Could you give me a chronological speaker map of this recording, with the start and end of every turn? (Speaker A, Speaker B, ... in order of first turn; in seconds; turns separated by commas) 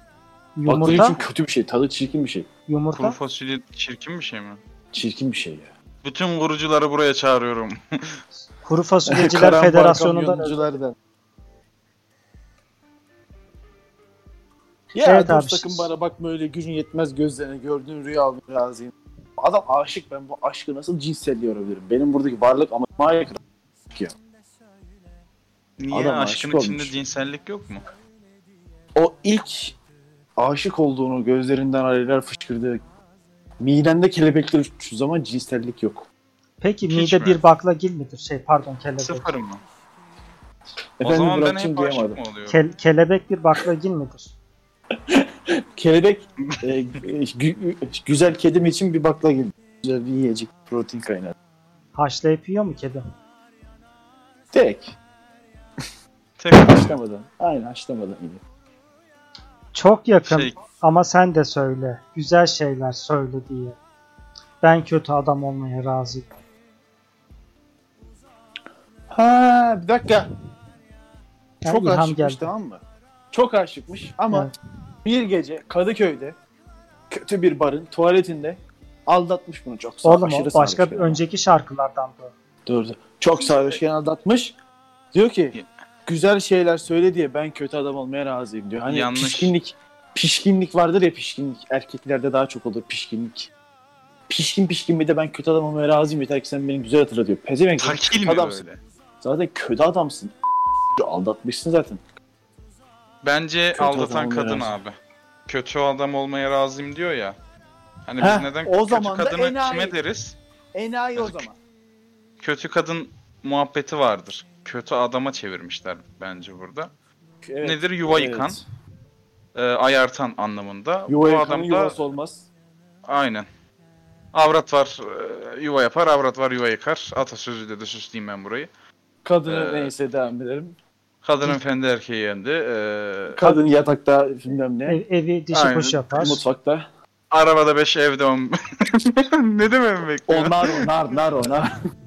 Speaker A: 0.6-1.2, Speaker B: 0.7-2.5, Speaker A: 2.7-3.2, Speaker C: 2.9-4.6, Speaker B: 4.9-5.7, Speaker C: 6.0-8.2, Speaker A: 8.6-10.7, Speaker B: 9.1-10.9, Speaker B: 14.9-23.4, Speaker A: 15.0-15.9, Speaker C: 25.8-27.8, Speaker B: 25.9-26.9, Speaker B: 28.9-29.8, Speaker B: 30.4-32.8, Speaker B: 33.6-36.1, Speaker A: 36.6-39.3, Speaker C: 36.9-37.4, Speaker C: 39.0-39.6, Speaker B: 41.0-42.2, Speaker C: 41.0-42.6, Speaker A: 42.5-44.3, Speaker B: 44.9-51.3, Speaker A: 51.9-53.0, Speaker B: 54.5-54.9, Speaker C: 56.4-57.0, Speaker B: 56.5-58.4, Speaker A: 59.7-63.8, Speaker C: 60.2-60.6, Speaker A: 64.6-66.3, Speaker B: 69.1-70.3, Speaker A: 71.6-72.5, Speaker B: 71.6-74.5, Speaker B: 75.0-76.3, Speaker B: 77.1-81.2, Speaker A: 80.0-82.3, Speaker B: 82.7-84.5, Speaker B: 85.1-85.5, Speaker B: 86.0-93.5, Speaker C: 88.9-89.5, Speaker B: 94.3-98.6, Speaker C: 97.8-98.8, Speaker B: 99.2-100.3, Speaker B: 101.0-102.0, Speaker C: 103.2-104.9, Speaker B: 103.7-104.8, Speaker C: 105.5-107.4, Speaker C: 108.0-110.4, Speaker B: 108.2-110.0, Speaker B: 110.7-111.5, Speaker C: 111.2-111.5, Speaker C: 112.4-116.9, Speaker B: 117.4-118.6, Speaker C: 117.6-118.6, Speaker C: 119.5-122.0, Speaker B: 121.1-122.5, Speaker C: 123.0-123.5, Speaker C: 124.3-128.7, Speaker B: 129.2-130.7, Speaker C: 129.4-129.9, Speaker C: 131.2-133.5, Speaker B: 133.3-135.0, Speaker A: 134.9-136.4, Speaker C: 135.5-136.1, Speaker B: 136.1-136.9, Speaker C: 137.3-140.9, Speaker B: 140.3-141.8